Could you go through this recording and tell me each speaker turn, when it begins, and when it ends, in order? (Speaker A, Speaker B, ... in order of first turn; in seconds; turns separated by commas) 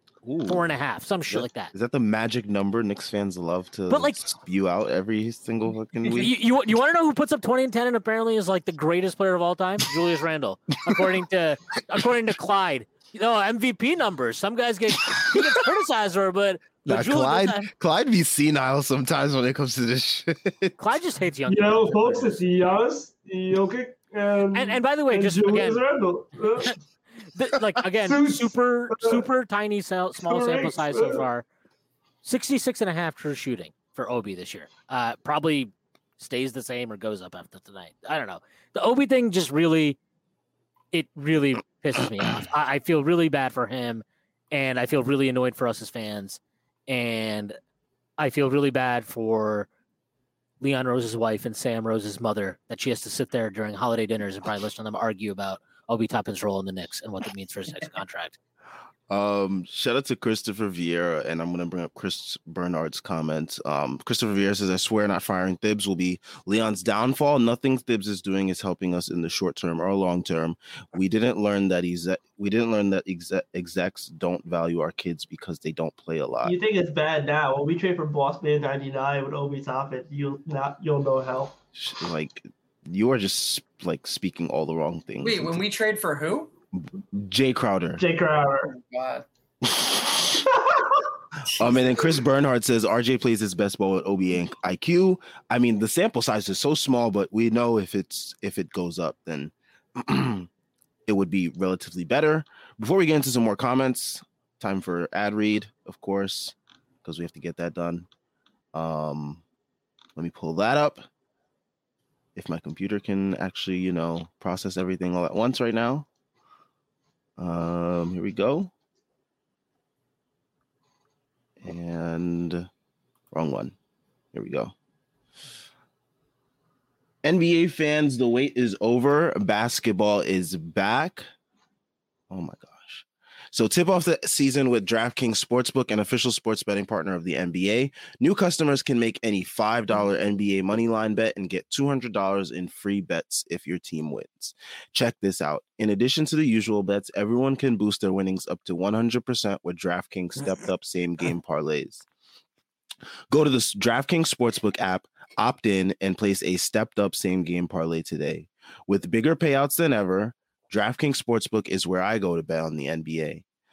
Speaker A: 0.2-0.7, Speaker B: 0.5-1.7, Speaker A: 1.3-6.3, Speaker B: 3.9-4.3, Speaker B: 6.1-17.7, Speaker A: 16.9-20.8, Speaker B: 20.8-22.4, Speaker C: 21.5-26.8, Speaker B: 24.5-25.8, Speaker B: 27.3-31.4, Speaker C: 28.0-29.2, Speaker C: 30.2-31.3, Speaker B: 32.2-40.0, Speaker B: 40.9-47.6, Speaker B: 48.2-49.7, Speaker B: 50.6-58.4, Speaker A: 59.1-76.6, Speaker C: 76.4-81.6, Speaker A: 81.8-85.6, Speaker D: 85.2-86.5, Speaker A: 86.7-88.0, Speaker C: 88.0-88.7, Speaker D: 88.7-89.2, Speaker A: 89.6-90.3, Speaker C: 90.5-91.0, Speaker D: 91.5-92.2, Speaker A: 91.5-100.5, Speaker A: 101.1-108.1, Speaker A: 108.7-109.4, Speaker A: 110.2-111.1, Speaker A: 112.4-116.1, Speaker A: 117.4-118.7, Speaker A: 121.6-122.7, Speaker A: 123.3-123.8, Speaker A: 124.3-124.7, Speaker A: 127.2-131.3, Speaker A: 132.3-152.1, Speaker A: 153.3-163.4